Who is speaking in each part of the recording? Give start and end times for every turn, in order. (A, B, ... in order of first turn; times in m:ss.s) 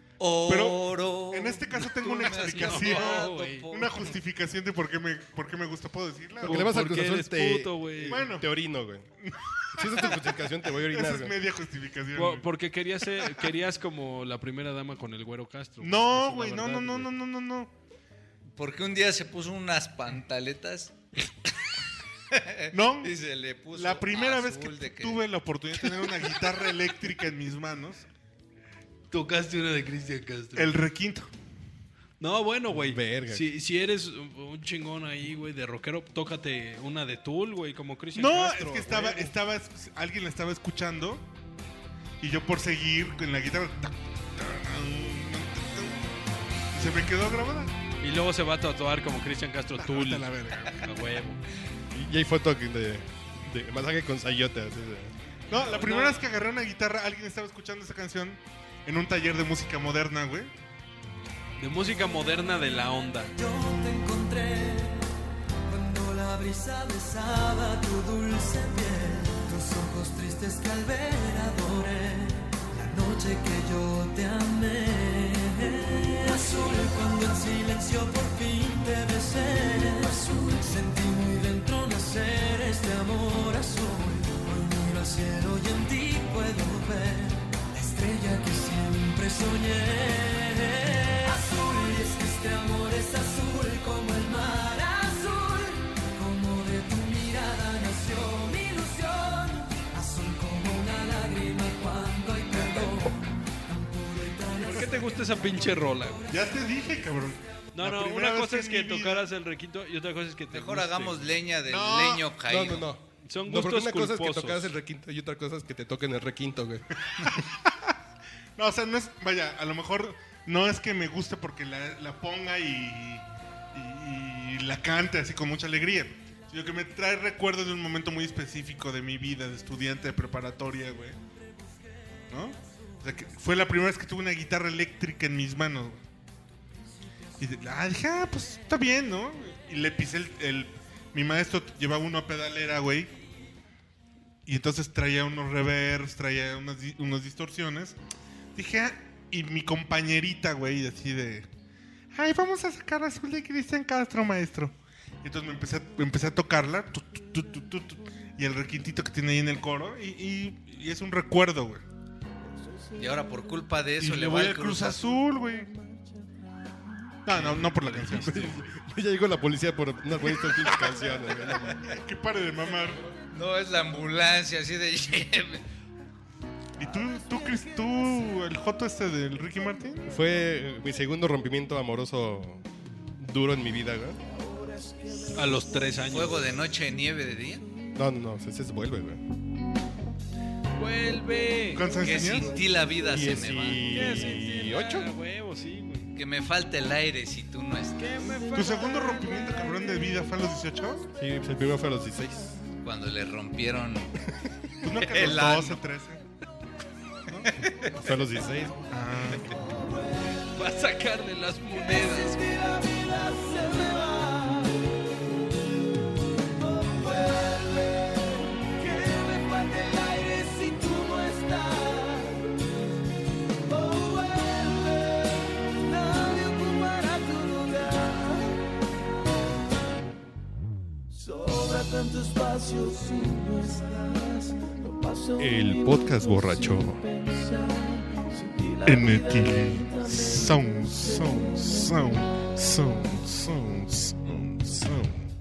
0:00.2-0:04.2 A
0:00.4-0:06.6 B
0:02.0-0:03.6 C
0:06.4-0:09.1 D
0:06.4-0:08.2 C
0:08.1-0:08.5 B
0:09.2-0:10.2 B
0:09.8-0:11.4 D
0:10.8-0:12.5 B
0:12.1-0:17.1 C
0:15.8-0:17.7 B
0:18.6-0:21.0 A
0:22.3-0:25.2 A
0:22.7-0:23.1 B
0:23.7-0:28.0 B
0:29.1-0:30.8 C
0:30.6-0:31.3 B
0:32.2-0:39.3 C
0:32.7-0:33.5 D
0:38.1-0:41.2 B
0:42.2-0:46.2 B
0:46.7-0:47.7 B
0:48.0-0:51.4 C
0:49.8-0:50.9 B
0:51.9-0:55.1 D
0:55.5-1:00.5 B
0:55.5-0:56.2 C
1:01.6-1:03.3 C
1:03.3-1:05.0 E
1:05.7-1:46.7 E
1:44.6-1:46.2 C
1:46.3-1:49.3 B
1:47.7-1:51.4 C
1:50.5-1:52.9 A
1:51.7-1:52.3 B
1:52.5-1:56.8 D
1:53.2-1:54.7 C
1:57.2-1:57.9 B
1:58.6-2:11.2 B
2:12.3-2:16.0 B
2:17.4-2:23.1 B
2:24.4-2:28.0 B
2:28.5-2:31.5 B
2:32.1-2:41.8 B
2:43.0-2:45.1 A
2:44.0-2:45.7 B
2:47.2-2:48.6 B
2:47.3-2:48.6 C
2:48.4-2:51.8 D
2:50.5-2:50.9 B
2:51.9-2:53.0 B
2:53.3-2:55.6 A
2:56.8-3:00.1 B
3:00.1-3:04.2 D
3:05.3-3:06.4 C
3:06.1-3:07.6 A
3:07.9-3:09.2 D
3:10.8-3:11.9 C
3:11.7-3:12.6 B
3:11.9-3:14.2 A
3:13.0-3:15.1 D
3:13.9-3:16.1 C
3:16.1-3:18.3 A
3:18.0-3:19.3 C
3:18.5-3:21.0 B
3:21.2-3:22.6 D
3:22.8-3:24.3 A
3:24.8-3:26.2 B
3:24.9-3:25.8 A
3:27.3-3:27.6 B
3:28.0-3:28.8 D
3:28.9-3:29.6 B
3:30.4-3:32.4 C
3:32.5-3:34.6 E
3:36.9-3:42.4 E
3:43.9-3:44.8 E
3:45.9-3:48.3 E
3:55.4-3:57.0 D
3:58.8-4:05.3 B